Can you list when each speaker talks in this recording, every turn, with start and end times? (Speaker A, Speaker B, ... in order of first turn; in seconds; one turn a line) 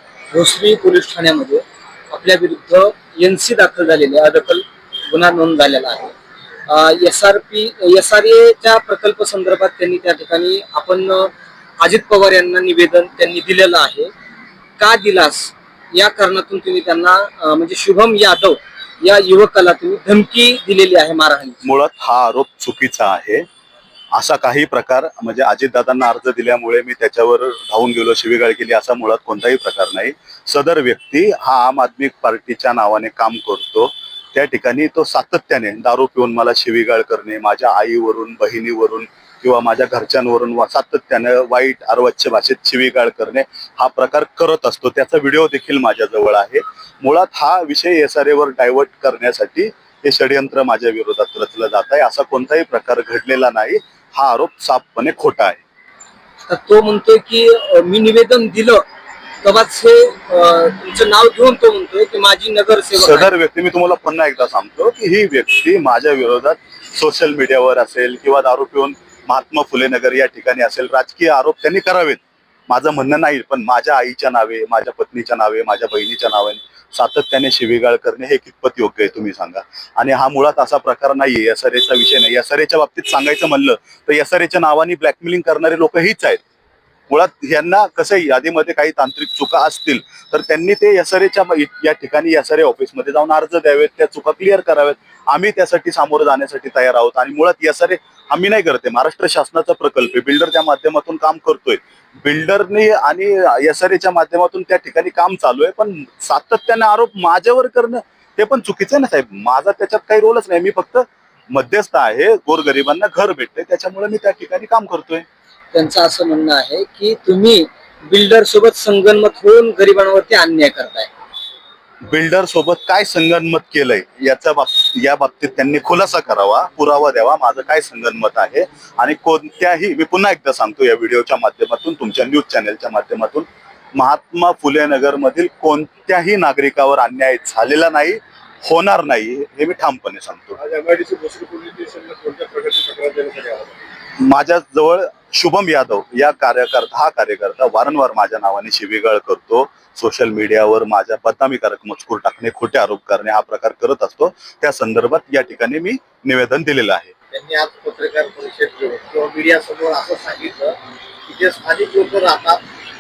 Speaker A: 0.3-6.1
Speaker A: 6.7-14.1
Speaker A: 14.8-21.6
Speaker B: 21.6-23.4
Speaker B: 24.1-55.6
Speaker A: 56.5-58.8
Speaker A: 59.4-63.3
Speaker B: 63.0-86.4
Speaker B: 87.1-115.2
Speaker A: 115.7-121.1
Speaker B: 122.1-140.6
Speaker C: 140.6-143.7
Speaker B: 144.2-157.1
Speaker C: 157.3-162.6